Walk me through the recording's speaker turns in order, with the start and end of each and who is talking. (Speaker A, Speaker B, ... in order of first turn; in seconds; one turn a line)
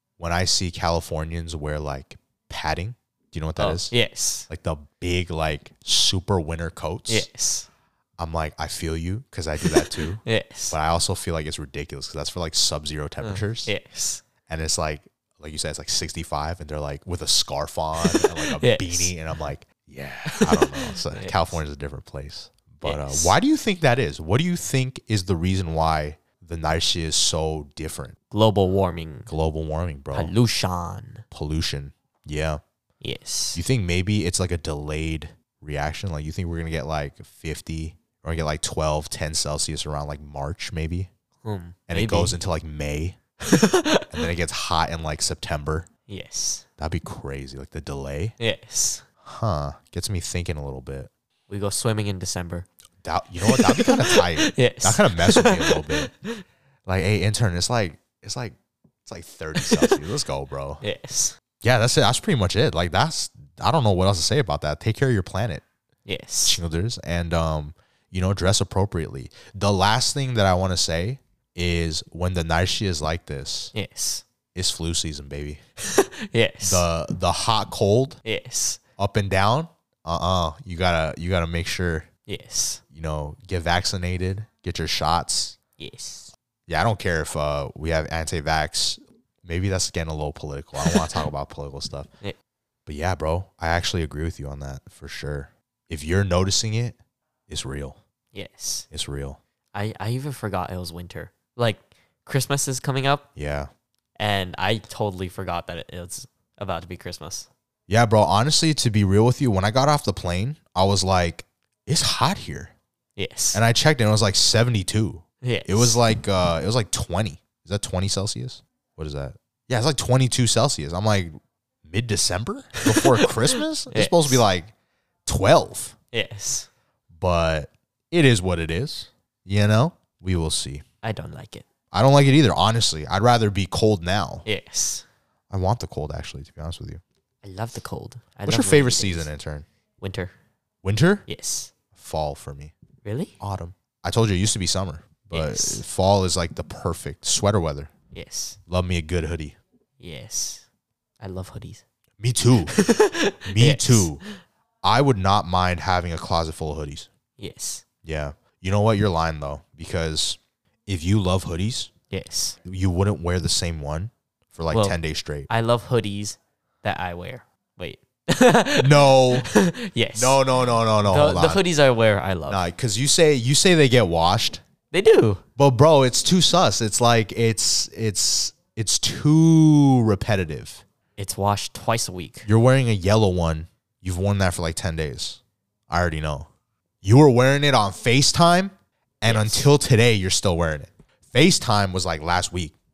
Speaker A: 0.2-3.9
Speaker B: 3.6-4.5
Speaker A: 4.5-7.3
Speaker B: 7.1-7.7
Speaker A: 8.2-13.7
Speaker B: 9.6-10.8
Speaker B: 13.2-14.2
Speaker A: 14.4-28.2
Speaker B: 18.0-19.1
Speaker B: 20.3-21.6
Speaker B: 22.8-23.3
Speaker B: 28.3-29.3
Speaker A: 29.3-30.4
Speaker B: 30.1-31.2
Speaker A: 31.3-32.6
Speaker B: 33.0-33.6
Speaker A: 33.5-41.1
Speaker B: 41.4-42.4
Speaker A: 41.9-43.2
Speaker B: 43.4-44.2
Speaker A: 44.1-45.9
Speaker B: 46.1-46.6
Speaker A: 46.8-48.4
Speaker B: 48.4-49.0
Speaker A: 49.2-51.1
Speaker B: 51.5-52.7
Speaker A: 53.0-56.1
Speaker B: 53.4-56.4
Speaker A: 56.9-60.8
Speaker B: 59.5-60.0
Speaker B: 60.8-61.4
Speaker A: 61.6-65.6
Speaker B: 66.0-66.6
Speaker A: 66.4-73.7
Speaker B: 73.7-74.2
Speaker A: 74.5-75.6
Speaker B: 75.8-76.8
Speaker A: 76.6-78.2
Speaker B: 78.2-78.8
Speaker A: 79.0-82.1
Speaker B: 82.3-82.8
Speaker A: 82.9-85.5
Speaker B: 85.8-86.3
Speaker A: 86.7-92.1
Speaker B: 90.8-91.2
Speaker A: 92.8-97.0
Speaker A: 97.5-98.0
Speaker B: 98.3-98.8
Speaker A: 98.9-99.4
Speaker B: 99.7-103.2
Speaker A: 103.3-103.7
Speaker B: 104.2-107.5
Speaker A: 107.9-112.7
Speaker B: 113.2-113.6
Speaker A: 113.5-121.3
Speaker B: 115.4-116.0
Speaker A: 121.8-124.7
Speaker B: 122.8-124.4
Speaker A: 125.2-125.9
Speaker B: 126.1-126.7
Speaker A: 127.1-130.8
Speaker B: 131.0-131.7
Speaker A: 131.9-134.4
Speaker B: 134.4-135.0
Speaker A: 135.5-137.0
Speaker B: 137.4-139.3
Speaker A: 138.4-139.7
Speaker B: 140.0-140.3
Speaker A: 140.8-141.2
Speaker B: 141.3-141.7
Speaker A: 141.9-142.7
Speaker B: 143.0-143.3
Speaker A: 143.4-147.9
Speaker B: 145.3-145.8
Speaker B: 148.1-148.6
Speaker A: 148.7-149.6
Speaker B: 150.0-150.7
Speaker B: 151.2-151.8
Speaker A: 152.2-152.8
Speaker B: 152.7-154.2
Speaker A: 153.4-154.2
Speaker A: 154.8-157.1
Speaker B: 157.4-157.8
Speaker A: 158.0-161.9
Speaker B: 162.1-162.6
Speaker A: 162.6-165.5
Speaker B: 164.7-165.0
Speaker B: 165.5-170.4
Speaker A: 168.8-169.5
Speaker A: 170.1-171.6
Speaker B: 171.0-172.6
Speaker A: 172.5-174.6
Speaker B: 174.9-175.4
Speaker A: 175.6-180.8
Speaker B: 181.2-182.5
Speaker A: 182.4-186.5
Speaker A: 187.0-192.7
Speaker B: 189.2-189.7